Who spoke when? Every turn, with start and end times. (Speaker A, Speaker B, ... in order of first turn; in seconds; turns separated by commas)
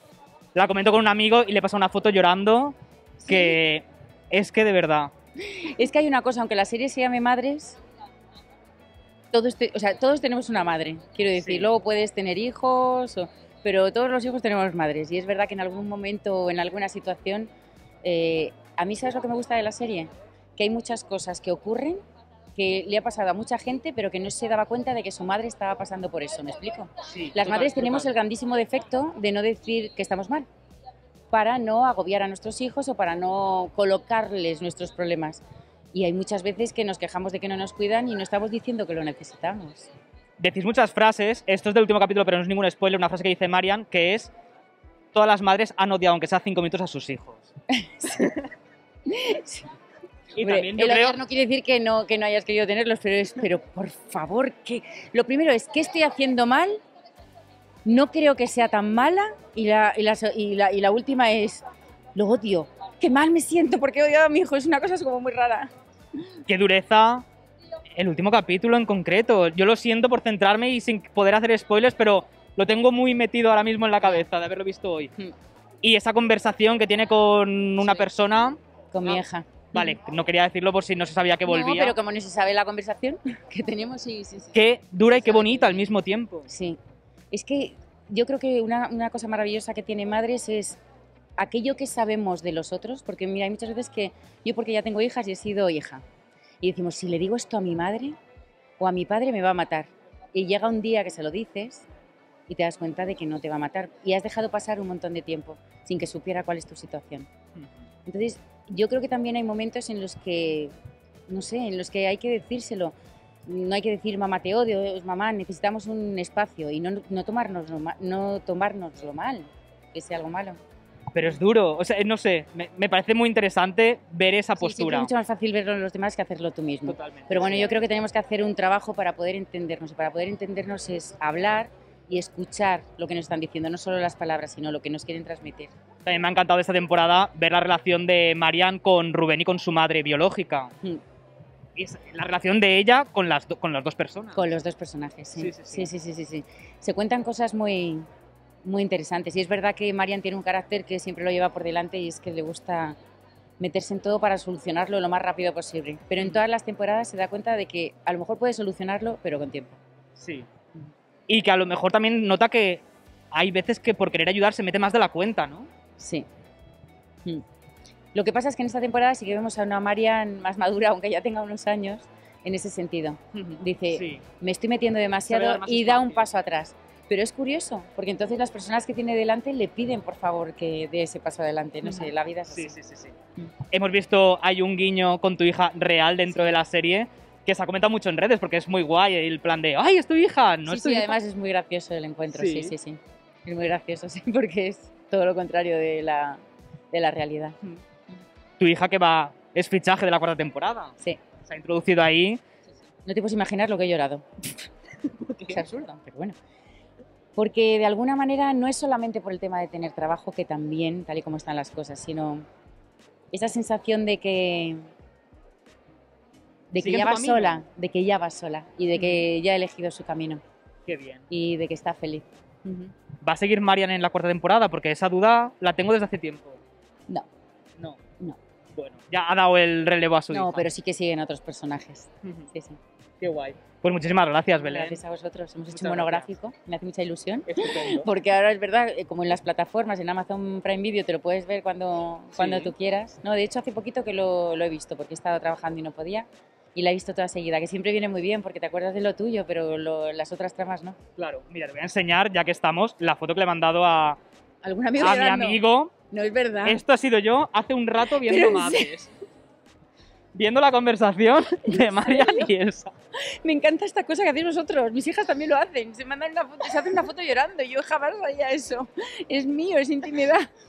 Speaker A: 0.6-5.1, Speaker B: 3.2-3.6, Speaker B: 5.5-7.8, Speaker B: 9.3-17.5, Speaker A: 11.4-11.7, Speaker B: 18.0-22.0, Speaker B: 22.6-30.5, Speaker A: 27.1-28.1, Speaker B: 31.3-35.4, Speaker B: 35.9-39.9, Speaker A: 40.4-44.3, Speaker A: 45.1-47.5, Speaker B: 47.8-48.2, Speaker B: 49.1-49.7, Speaker A: 50.3-51.2, Speaker B: 50.4-56.8, Speaker B: 57.9-61.6, Speaker B: 62.1-65.7, Speaker A: 66.5-67.3, Speaker A: 67.9-75.1, Speaker B: 74.0-74.3, Speaker A: 75.8-79.2, Speaker B: 78.9-80.0, Speaker A: 79.7-82.0, Speaker B: 81.5-85.9, Speaker A: 84.5-86.5, Speaker B: 86.5-86.8, Speaker B: 87.3-90.8, Speaker B: 91.4-96.0, Speaker B: 96.6-98.2, Speaker B: 98.8-101.9, Speaker B: 102.5-107.3, Speaker B: 108.1-110.7, Speaker B: 111.3-113.0, Speaker B: 113.5-120.6, Speaker A: 121.1-125.1, Speaker B: 124.6-135.7, Speaker A: 126.9-127.7, Speaker A: 136.1-140.7, Speaker A: 141.8-144.6, Speaker B: 144.4-148.1, Speaker A: 145.4-145.9, Speaker B: 148.6-153.0, Speaker B: 153.6-159.8, Speaker A: 160.2-160.5, Speaker A: 161.3-165.7, Speaker B: 166.0-166.3, Speaker B: 168.1-182.8, Speaker A: 173.3-174.2, Speaker A: 175.3-176.3, Speaker A: 181.8-183.2, Speaker A: 183.7-191.2, Speaker B: 190.7-197.6, Speaker A: 192.3-192.7, Speaker A: 198.6-202.4, Speaker B: 203.1-204.7, Speaker A: 205.2-205.6, Speaker B: 205.4-206.4, Speaker B: 207.4-212.4, Speaker B: 213.3-214.8, Speaker B: 216.7-220.4, Speaker A: 216.8-217.6, Speaker A: 219.0-219.2, Speaker A: 220.9-221.2, Speaker B: 221.3-222.9, Speaker A: 223.2-226.6, Speaker A: 228.7-230.7, Speaker B: 230.3-232.8, Speaker A: 232.2-232.5, Speaker A: 233.2-235.0, Speaker B: 234.6-251.0, Speaker A: 235.7-236.3, Speaker A: 237.5-238.1, Speaker A: 242.4-242.7, Speaker A: 251.2-254.2, Speaker B: 254.6-256.8, Speaker A: 255.0-255.9, Speaker A: 256.6-259.1, Speaker B: 258.1-259.0, Speaker A: 260.3-262.9, Speaker B: 261.7-262.5, Speaker B: 263.4-270.5